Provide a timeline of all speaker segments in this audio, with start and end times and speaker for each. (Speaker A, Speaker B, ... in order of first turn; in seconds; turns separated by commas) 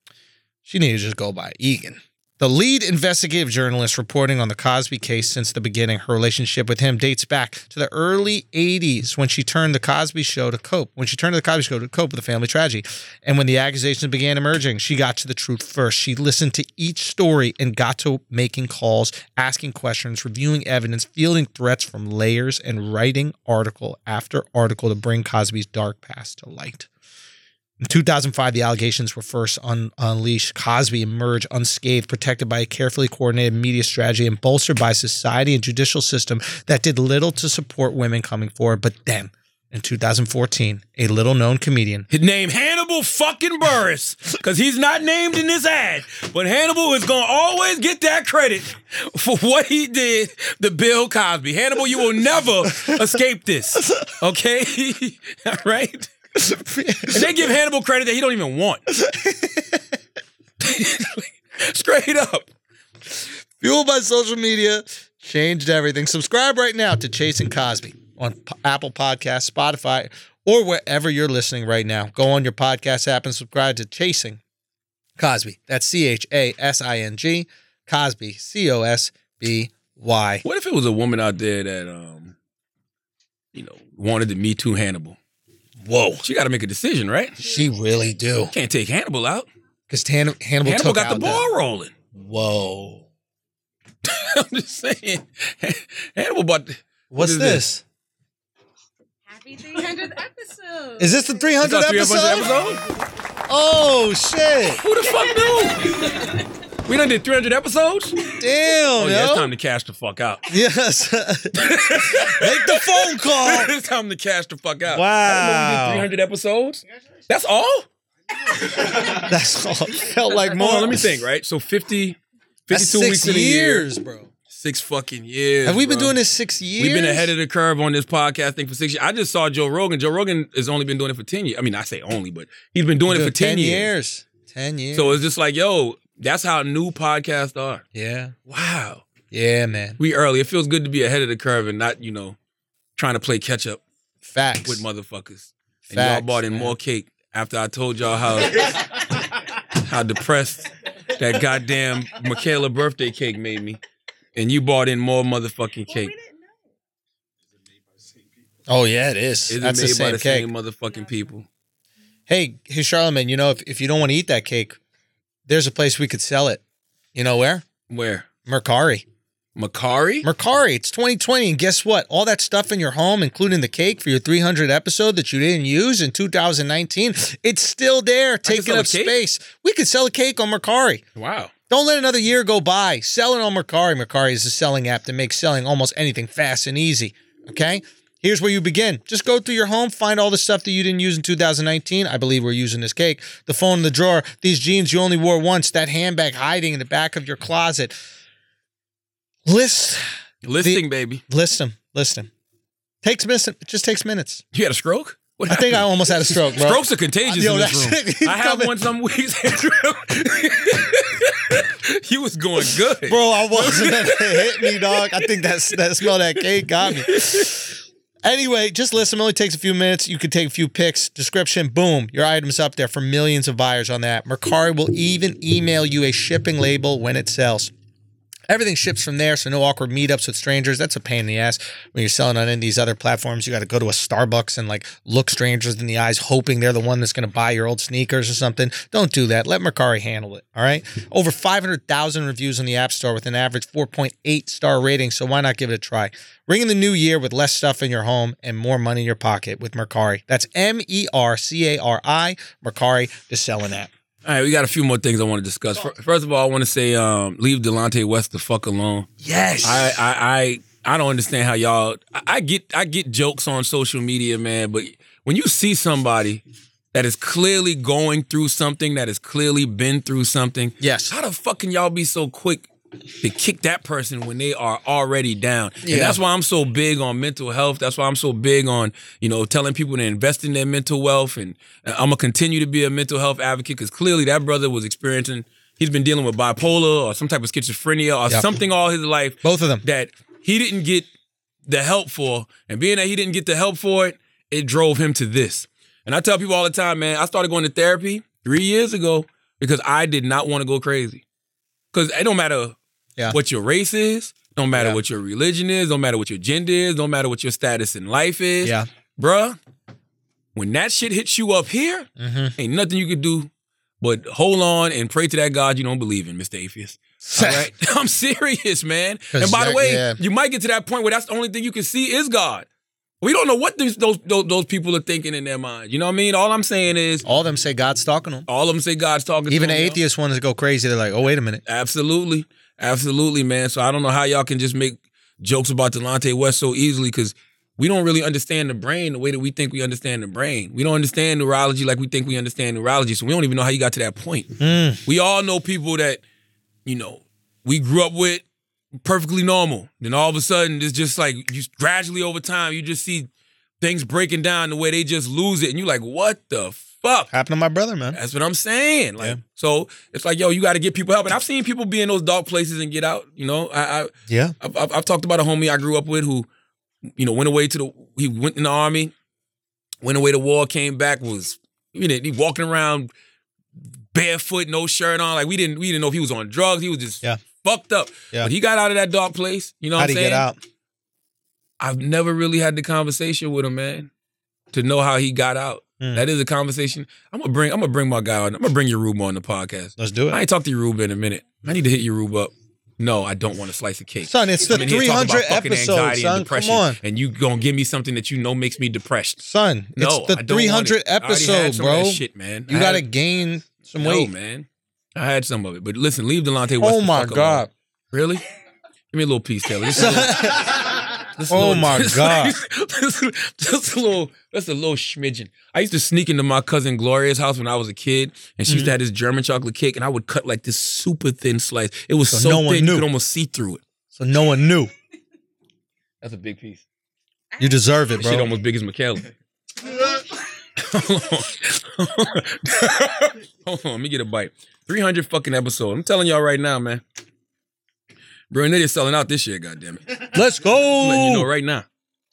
Speaker A: 0.7-26.9, Speaker A: 27.8-42.1, Speaker B: 42.1-56.1, Speaker A: 52.7-53.1, Speaker A: 56.4-57.5, Speaker B: 57.1-58.8, Speaker A: 58.9-59.8, Speaker B: 60.6-62.5, Speaker A: 63.6-74.4, Speaker A: 75.2-80.4, Speaker B: 80.4-82.3, Speaker B: 83.5-85.2, Speaker A: 85.8-86.2, Speaker B: 86.2-87.5, Speaker A: 87.4-88.5, Speaker B: 88.5-89.5, Speaker A: 89.9-91.4, Speaker B: 90.6-91.9, Speaker A: 92.2-93.0, Speaker B: 94.0-97.7, Speaker A: 97.1-97.8, Speaker C: 99.3-101.7, Speaker A: 101.0-102.7, Speaker B: 101.6-102.8, Speaker C: 102.2-102.9, Speaker A: 103.5-104.8, Speaker B: 104.8-106.3, Speaker B: 106.8-108.4, Speaker A: 108.4-109.5, Speaker B: 108.9-110.5, Speaker A: 110.5-113.7, Speaker B: 111.5-117.9, Speaker A: 114.9-116.1, Speaker A: 118.6-121.2, Speaker B: 120.5-123.9, Speaker A: 122.7-124.3, Speaker B: 124.5-126.2, Speaker A: 125.6-127.3, Speaker B: 126.8-133.9, Speaker A: 133.1-135.2, Speaker B: 134.9-137.8, Speaker A: 137.9-138.3, Speaker B: 138.5-139.0, Speaker A: 139.3-140.0, Speaker B: 140.0-142.4, Speaker B: 143.0-143.8, Speaker A: 144.2-144.8, Speaker B: 144.7-149.0, Speaker A: 145.9-146.8, Speaker B: 149.8-153.8, Speaker B: 154.4-156.1, Speaker C: 155.9-156.6, Speaker A: 158.7-160.5, Speaker B: 159.5-161.5, Speaker A: 162.3-164.8, Speaker A: 165.5-166.6, Speaker A: 167.2-167.7, Speaker B: 167.9-168.3, Speaker A: 168.5-169.1, Speaker B: 169.6-170.3, Speaker A: 170.2-181.0, Speaker B: 178.4-179.2, Speaker B: 181.2-181.5, Speaker A: 181.7-198.0, Speaker A: 199.5-200.1, Speaker B: 200.4-201.2, Speaker A: 200.6-202.3, Speaker A: 203.0-204.4, Speaker B: 204.5-215.3, Speaker A: 205.5-208.8, Speaker A: 213.1-227.7, Speaker B: 216.8-217.5, Speaker A: 228.5-253.9, Speaker B: 254.2-259.1, Speaker A: 259.2-260.0, Speaker B: 259.6-266.4, Speaker B: 266.9-272.7, Speaker A: 270.8-271.1, Speaker B: 273.2-291.1, Speaker A: 275.8-276.2, Speaker A: 288.3-288.6, Speaker A: 289.4-289.9, Speaker B: 291.7-301.2, Speaker B: 301.9-302.8, Speaker B: 303.3-309.6, Speaker A: 304.7-305.0, Speaker B: 310.6-313.5, Speaker A: 312.2-312.6, Speaker B: 314.0-322.7, Speaker A: 317.2-317.7, Speaker A: 319.3-320.2, Speaker B: 323.2-327.2, Speaker A: 327.2-328.5, Speaker B: 328.5-330.0, Speaker A: 329.5-331.6, Speaker B: 331.7-344.6, Speaker A: 344.6-345.0, Speaker B: 345.1-346.2, Speaker B: 346.9-348.4, Speaker B: 349.0-353.3, Speaker B: 353.8-357.3, Speaker A: 357.3-358.2, Speaker B: 358.1-366.5, Speaker A: 364.3-364.6, Speaker B: 367.2-369.1, Speaker B: 370.0-373.1, Speaker B: 374.1-380.5, Speaker A: 380.0-380.6, Speaker B: 381.8-384.1, Speaker B: 384.7-399.4, Speaker A: 390.0-390.4, Speaker A: 394.3-397.0, Speaker A: 399.4-404.3, Speaker B: 400.0-403.1, Speaker B: 404.0-408.4, Speaker A: 406.8-407.7, Speaker B: 409.1-410.9, Speaker A: 409.9-412.6, Speaker B: 411.4-423.8, Speaker A: 418.7-418.9, Speaker A: 422.3-423.1, Speaker A: 424.1-424.9, Speaker B: 426.2-426.8, Speaker A: 427.6-428.5, Speaker B: 428.2-429.3, Speaker B: 430.8-437.0, Speaker B: 438.5-440.3, Speaker A: 440.3-441.5, Speaker B: 441.0-441.9